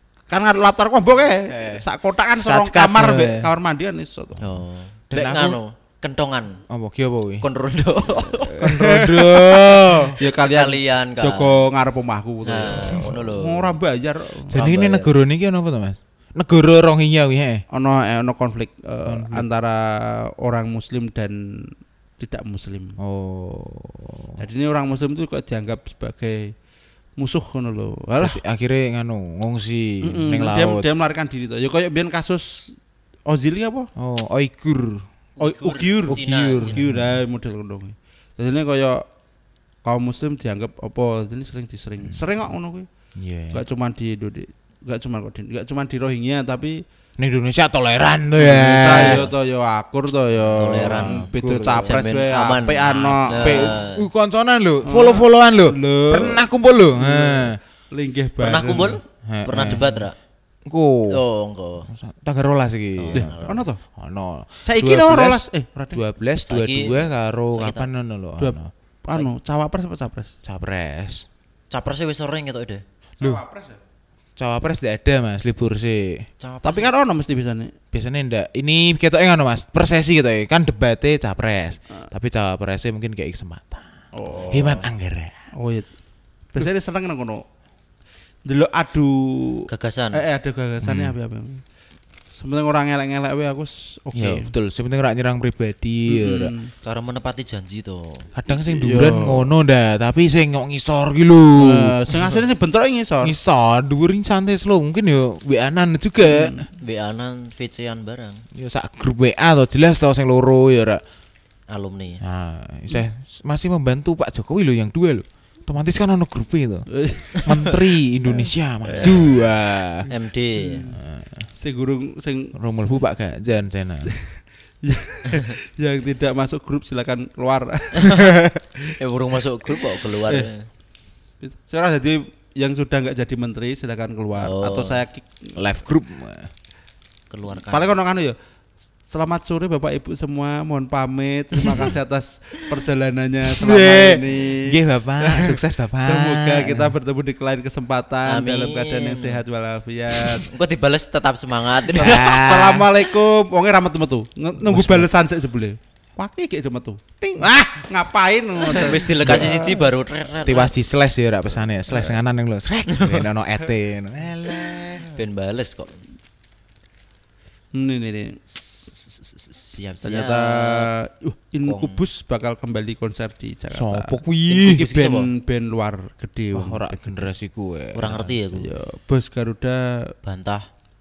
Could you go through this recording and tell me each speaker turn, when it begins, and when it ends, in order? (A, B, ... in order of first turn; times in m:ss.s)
0:00.3-0:04.5 A
0:01.5-0:01.8 B
0:02.3-0:03.5 B
0:04.4-0:06.6 C
0:05.1-0:05.6 B
0:06.7-0:07.4 B
0:07.4-0:08.7 C
0:08.5-0:10.2 B
0:08.6-0:14.5 A
0:10.2-0:11.6 C
0:12.4-0:13.7 C
0:14.5-0:17.6 B
0:14.5-0:15.1 C
0:17.7-0:23.0 A
0:19.0-0:19.4 B
0:23.0-0:24.4 B
0:24.4-0:26.5 A
0:27.2-0:28.4 A
0:28.2-0:30.8 B
0:30.0-0:32.7 A
0:33.2-0:33.9 A
0:34.0-0:35.0 B
0:35.4-0:36.8 C
0:35.4-0:39.0 A
0:36.1-0:37.2 B
0:39.8-0:42.9 A
0:43.2-0:43.6 B
0:43.5-0:46.8 A
0:47.2-0:49.3 B
0:48.4-0:53.7 A
0:50.5-0:54.0 C
0:50.6-0:52.0 B
0:53.4-0:57.6 B
0:54.8-0:56.4 A
0:57.0-0:59.0 A
0:58.4-1:00.1 C
0:59.3-1:00.1 B
1:00.6-1:01.2 B
1:01.1-1:01.9 C
1:01.9-1:08.7 B
1:03.0-1:03.6 C
1:03.1-1:03.8 A
1:04.6-1:06.0 A
1:06.4-1:07.9 C
1:08.4-1:10.3 A
1:10.4-1:11.2 B
1:11.7-1:12.8 C
1:13.2-1:13.8 A
1:14.4-1:16.3 B
1:16.4-1:16.9 C
1:16.6-1:17.8 A
1:17.9-1:23.9 B
1:24.1-1:24.8 A
1:24.2-1:24.8 C
1:24.5-1:25.3 B
1:25.5-1:25.9 A
1:26.5-1:27.4 A
1:28.4-1:31.6 A
1:29.7-1:30.2 C
1:30.8-1:31.1 B
1:32.3-1:34.5 A
1:34.1-1:36.5 B
1:36.1-1:36.7 A
1:36.8-1:38.3 C
1:38.3-1:42.4 B
1:38.5-1:39.5 A
1:41.6-1:43.3 A
1:43.2-1:46.5 B
1:46.2-1:46.7 A
1:46.8-1:48.4 C
1:48.5-1:51.0 B
1:51.7-1:52.2 C
1:52.2-1:56.9 B
1:56.9-1:57.9 A
1:57.4-2:00.1 B
1:58.9-1:59.4 A
2:00.1-2:00.9 C
2:00.7-2:01.0 A
2:00.9-2:01.5 B
2:01.6-2:02.6 A
2:02.5-2:04.1 B
2:04.0-2:08.2 A
2:08.0-2:08.3 C
2:08.2-2:08.6 B
2:08.9-2:10.7 C
2:11.4-2:15.5 A
2:14.4-2:15.0 C
2:15.6-2:16.5 B
2:17.3-2:18.0 C
2:17.7-2:18.4 A
2:19.1-2:30.5 A
2:23.5-2:27.0 B
2:28.2-2:29.4 C
2:30.2-2:32.4 C
2:31.9-2:32.9 B
2:32.0-2:39.7 A
2:34.6-2:35.1 B
2:38.6-2:40.7 C
2:39.2-2:39.6 B
2:40.4-2:45.2 B
2:42.9-2:43.2 C
2:45.1-2:46.0 C
2:47.7-2:48.6 A
2:48.9-2:50.9 C
2:50.0-2:57.2 A
2:51.6-2:52.0 C
2:53.7-2:54.8 B
2:54.5-2:55.3 C
2:56.5-2:58.4 B
2:57.9-2:58.7 C
2:58.6-3:00.1 A
3:00.2-3:00.6 C